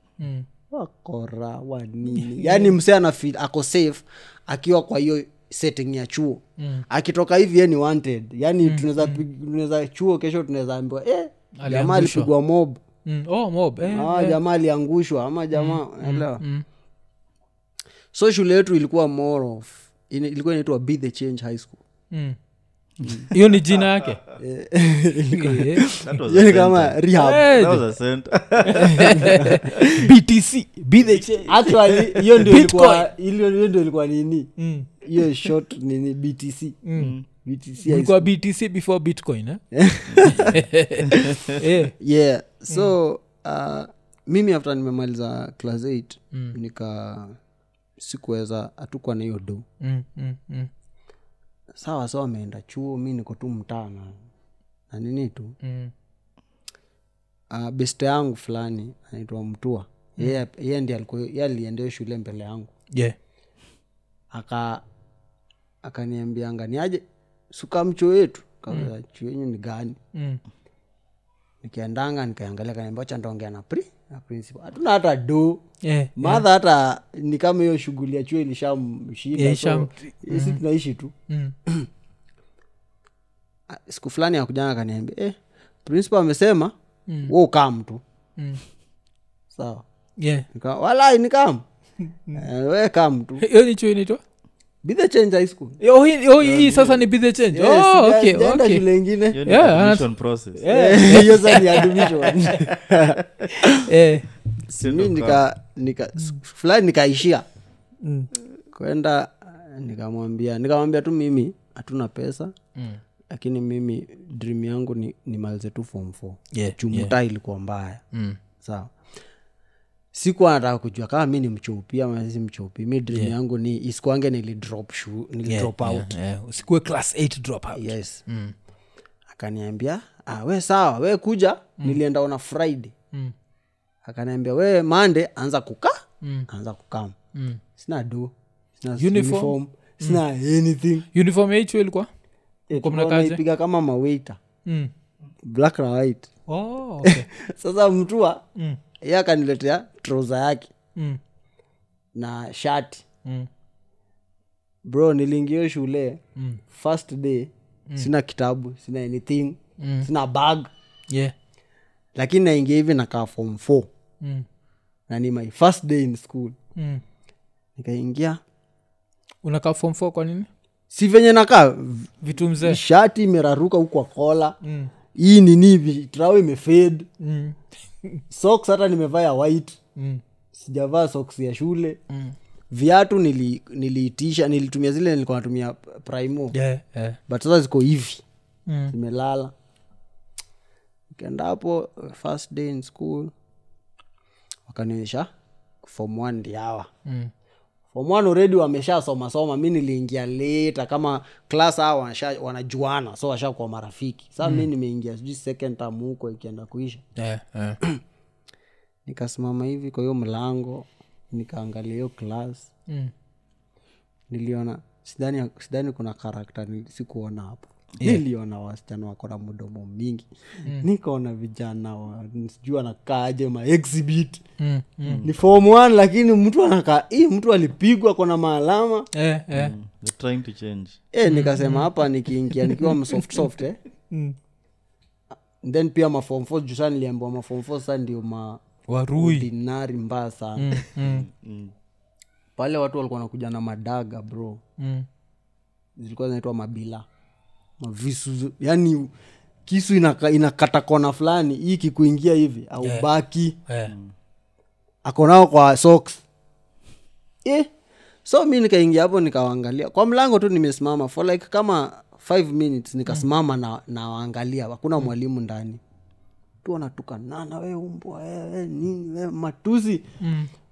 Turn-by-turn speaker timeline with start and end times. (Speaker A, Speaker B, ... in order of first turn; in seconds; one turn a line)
Speaker A: 0.2-0.5
Speaker B: 0.7-12.8
Speaker A: 2.1-2.8
Speaker A: 6.6-6.8
Speaker A: 8.6-9.2
Speaker A: 11.6-12.3
Speaker A: 13.0-14.4
Speaker B: 13.8-16.4
Speaker A: 15.5-16.6
Speaker B: 18.1-21.8
Speaker A: 22.1-22.4
Speaker C: 23.0-23.9
Speaker B: 23.0-23.3
Speaker A: 23.3-24.2
Speaker B: 24.4-27.5
Speaker A: 25.3-25.9
Speaker C: 26.0-29.9
Speaker A: 27.1-27.9
Speaker A: 28.6-33.1
Speaker B: 28.7-30.1
Speaker C: 31.1-31.5
Speaker B: 31.4-36.8
Speaker A: 34.6-35.5
Speaker A: 36.8-37.1
Speaker C: 37.0-37.2
Speaker B: 37.4-38.3
Speaker A: 37.8-39.6
Speaker B: 39.7-47.4
Speaker A: 40.2-41.9
Speaker B: 48.0-49.6
Speaker A: 49.8-50.7
Speaker B: 51.7-54.2
Speaker B: 54.9-55.5
Speaker A: 55.6-55.9
Speaker B: 57.5-62.7
Speaker A: 62.9-63.1
Speaker B: 64.3-64.8
Speaker B: 65.8-70.0
Speaker A: 70.1-70.4
Speaker B: 71.6-75.6
Speaker A: 75.8-76.5
Speaker B: 76.2-81.1
Speaker A: 79.3-80.6
Speaker A: 81.3-81.5
Speaker B: 83.7-86.7
Speaker A: 87.1-87.3
Speaker B: 87.3-88.0
Speaker A: 88.4-88.6
Speaker B: 89.5-89.8
Speaker A: 90.2-90.5
Speaker B: 90.5-91.6
Speaker B: 92.3-93.5
Speaker A: 93.4-94.2
Speaker B: 94.8-95.8
Speaker A: 95.8-98.8
Speaker C: 96.4-97.0
Speaker B: 97.5-99.4
Speaker C: 99.3-100.7
Speaker A: 99.4-102.7
Speaker B: 100.7-103.8
Speaker A: 103.6-104.3
Speaker B: 104.7-107.5
Speaker C: 104.8-105.4
Speaker A: 108.0-108.3
Speaker B: 108.7-112.5
Speaker A: 112.8-113.0
Speaker B: 113.3-118.0
Speaker A: 116.5-117.1
Speaker A: 118.1-118.4
Speaker B: 118.6-118.9
Speaker B: 120.1-126.1
Speaker A: 123.1-123.3
Speaker A: 125.5-128.5
Speaker B: 127.7-128.2
Speaker B: 129.3-132.9
Speaker B: 134.0-137.2
Speaker A: 136.2-136.5
Speaker A: 137.3-137.6
Speaker B: 137.7-141.1
Speaker A: 138.9-140.2
Speaker A: 141.1-142.1
Speaker B: 142.7-144.4
Speaker A: 142.7-143.4
Speaker A: 144.7-144.9
Speaker B: 145.4-146.3
Speaker A: 146.5-147.3
Speaker B: 147.0-148.4
Speaker A: 148.5-148.8
Speaker B: 149.0-150.7
Speaker A: 150.9-151.2
Speaker B: 152.1-153.1
Speaker A: 153.2-153.5
Speaker B: 154.8-160.7
Speaker A: 156.3-156.6
Speaker A: 159.8-160.1
Speaker A: 161.1-161.3
Speaker B: 162.2-163.9
Speaker A: 164.2-164.5
Speaker B: 165.1-166.6
Speaker A: 166.8-167.0
Speaker B: 167.8-168.4
Speaker A: 169.4-170.5
Speaker B: 170.9-174.6
Speaker A: 172.2-172.8
Speaker A: 174.6-174.9
Speaker B: 175.1-177.1
Speaker A: 177.2-178.2
Speaker B: 178.3-179.8
Speaker A: 179.9-180.2
Speaker B: 180.5-182.0
Speaker A: 182.1-182.3
Speaker B: 182.7-186.5
Speaker A: 186.5-187.2
Speaker B: 187.3-188.2
Speaker A: 188.7-188.9
Speaker B: 188.9-189.5
Speaker B: 191.1-193.3
Speaker B: 194.7-195.3
Speaker B: 195.8-196.9
Speaker A: 197.0-197.3
Speaker B: 197.9-207.0
Speaker A: 207.2-207.8
Speaker B: 209.1-212.7
Speaker B: 214.3-224.4
Speaker A: 224.6-225.2
Speaker C: 225.0-225.3
Speaker B: 225.2-229.1
Speaker A: 229.1-229.8
Speaker C: 229.5-231.0
Speaker B: 231.1-233.8
Speaker A: 231.2-233.5
Speaker A: 234.1-234.4
Speaker B: 235.6-238.6
Speaker A: 238.9-239.5
Speaker B: 239.2-240.8
Speaker A: 240.6-241.3
Speaker C: 240.9-241.7
Speaker B: 242.6-244.6
Speaker A: 244.8-245.1
Speaker B: 246.0-247.1
Speaker B: 247.8-249.1
Speaker B: 249.7-253.6
Speaker A: 252.8-253.1
Speaker A: 253.7-253.9
Speaker B: 255.0-256.2
Speaker B: 257.4-257.7
Speaker B: 258.2-265.8
Speaker B: 266.6-270.1
Speaker A: 270.2-270.5